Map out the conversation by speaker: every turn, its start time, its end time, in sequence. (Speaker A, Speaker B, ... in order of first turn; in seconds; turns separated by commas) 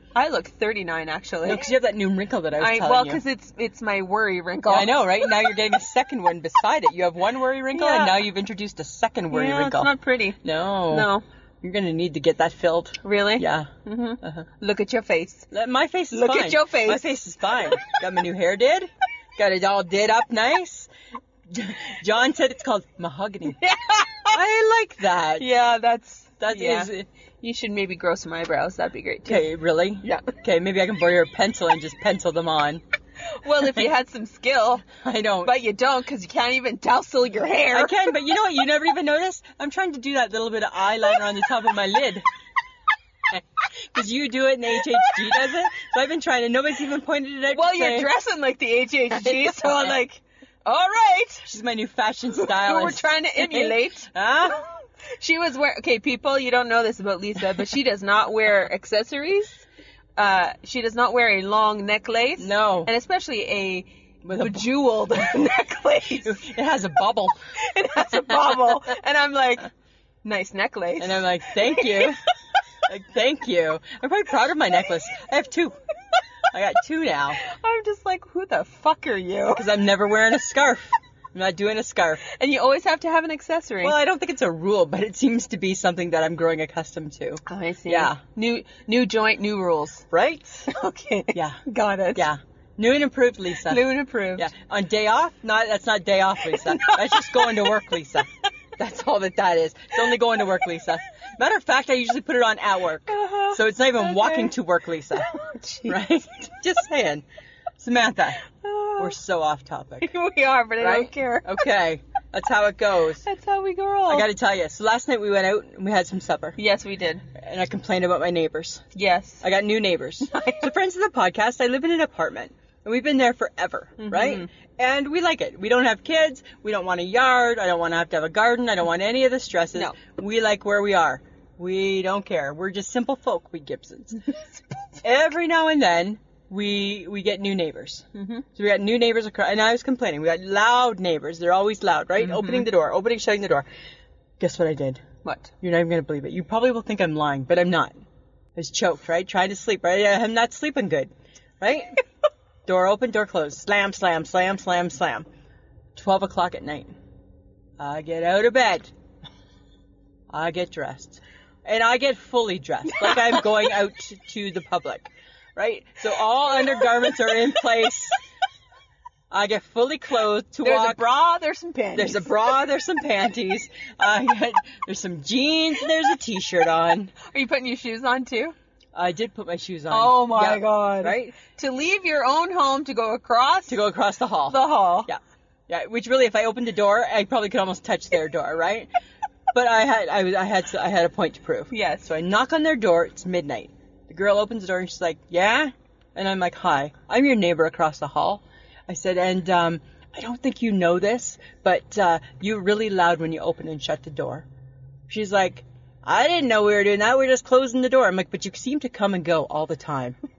Speaker A: 0.1-1.6, Speaker B: 1.4-3.2, Speaker A: 2.6-5.2, Speaker B: 4.7-11.1, Speaker A: 7.7-8.2, Speaker A: 9.3-11.2, Speaker B: 11.6-13.7, Speaker A: 13.0-15.5, Speaker B: 14.2-14.4, Speaker B: 15.5-20.9, Speaker A: 16.1-17.2, Speaker B: 21.5-23.6, Speaker A: 23.5-24.4, Speaker B: 24.3-25.5, Speaker A: 25.4-29.4, Speaker B: 26.4-27.1, Speaker B: 29.3-32.8, Speaker A: 30.0-30.3, Speaker A: 33.4-34.9, Speaker B: 33.6-33.9, Speaker B: 34.9-35.6, Speaker A: 35.4-38.1, Speaker B: 37.7-42.2, Speaker B: 43.3-48.1, Speaker A: 47.5-51.4, Speaker B: 49.2-49.9, Speaker B: 51.4-54.6, Speaker A: 52.3-59.6, Speaker A: 60.2-66.4, Speaker B: 62.4-62.9, Speaker B: 64.2-64.7, Speaker B: 66.2-67.3, Speaker A: 67.6-69.7, Speaker A: 70.2-72.2, Speaker B: 71.0-72.2, Speaker B: 72.9-75.8, Speaker B: 76.5-77.4, Speaker A: 77.4-79.6, Speaker B: 79.5-82.2, Speaker A: 82.2-83.9, Speaker B: 83.8-88.2, Speaker A: 87.5-90.0, Speaker B: 90.1-90.7, Speaker A: 90.7-92.2, Speaker B: 91.3-91.6, Speaker B: 92.1-105.3, Speaker A: 93.6-94.5, Speaker A: 96.5-97.8, Speaker A: 103.1-104.5, Speaker A: 105.3-106.0, Speaker B: 105.8-107.2, Speaker B: 107.8-108.4, Speaker A: 108.6-109.1, Speaker B: 109.0-110.1, Speaker A: 110.0-111.7, Speaker B: 110.8-113.2, Speaker A: 113.2-114.3, Speaker B: 114.1-116.6, Speaker A: 116.6-117.2, Speaker B: 117.3-118.8, Speaker A: 118.9-119.4, Speaker B: 119.4-134.2, Speaker A: 120.3-120.7, Speaker A: 124.0-124.5, Speaker B: 135.0-143.6, Speaker A: 138.2-138.4, Speaker A: 142.2-142.6, Speaker B: 144.4-145.0, Speaker A: 145.2-145.5, Speaker B: 145.6-148.0, Speaker B: 148.5-152.0, Speaker B: 152.7-155.2, Speaker B: 155.9-156.9, Speaker B: 157.8-158.9, Speaker B: 160.3-168.2, Speaker A: 162.8-163.5, Speaker B: 169.3-171.0, Speaker A: 170.6-172.4, Speaker B: 171.9-177.2, Speaker A: 177.2-178.5, Speaker B: 178.9-181.3, Speaker A: 179.9-183.8, Speaker B: 183.7-188.9, Speaker A: 184.5-185.1, Speaker B: 189.5-204.4, Speaker A: 191.7-192.1, Speaker B: 205.1-210.2